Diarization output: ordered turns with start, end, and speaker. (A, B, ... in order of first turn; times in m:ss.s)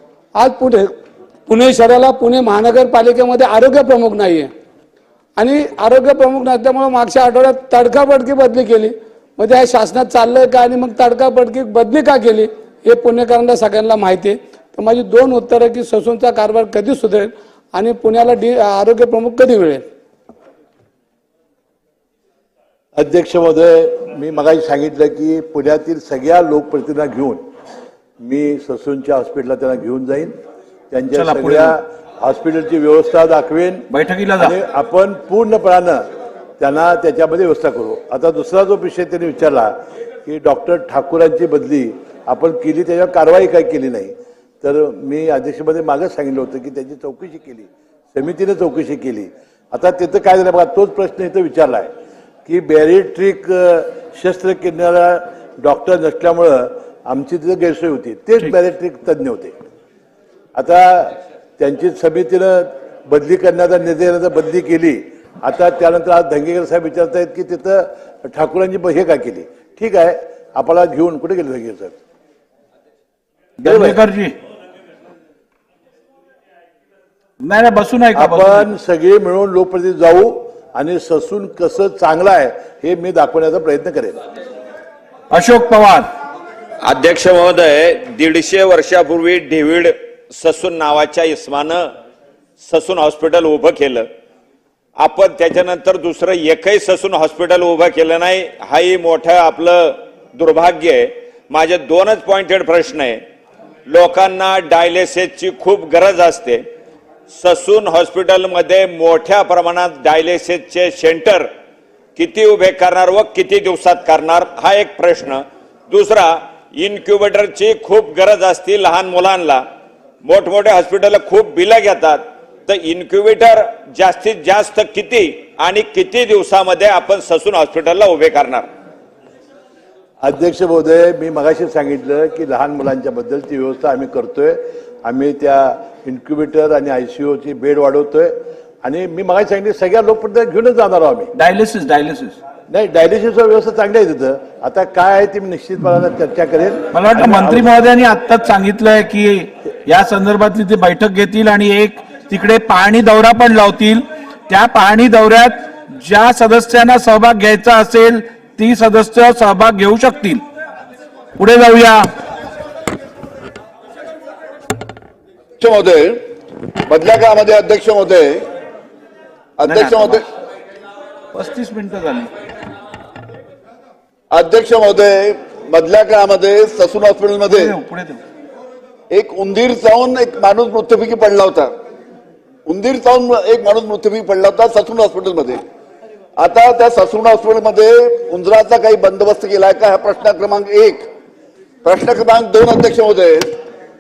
0:00.4-0:04.5 A
0:05.4-0:19.9 A
0:23.0-0:27.5 B
0:28.2-0:30.4 B
0:30.9-0:33.9 B
0:31.2-0:31.8 C
0:33.9-0:34.6 C
0:34.4-0:36.1 B
0:36.6-0:51.9 B
0:52.5-0:59.5 B
1:00.6-1:12.0 B
1:13.6-1:14.4 C
1:13.6-1:14.0 B
1:17.4-1:18.7 C
1:18.2-1:24.2 B
1:25.3-1:26.1 C
1:26.8-1:31.9 D
1:32.6-1:34.1 D
1:35.0-1:43.2 D
1:43.9-1:46.6 D
1:47.3-1:51.5 D
1:52.2-1:59.7 D
2:00.2-2:08.7 D
2:10.2-2:21.3 B
2:21.4-2:22.4 C
2:22.7-2:27.7 B
2:26.9-2:40.4 C
2:41.4-2:42.1 C
2:45.6-2:46.2 E
2:46.9-2:48.5 E
2:49.6-2:50.2 E
2:49.7-2:50.2 C
2:51.3-2:52.3 C
2:54.3-2:57.8 E
2:57.5-2:58.2 C
2:59.1-3:01.7 E
3:02.7-3:05.6 E
3:06.4-3:11.1 E
3:11.8-3:13.6 E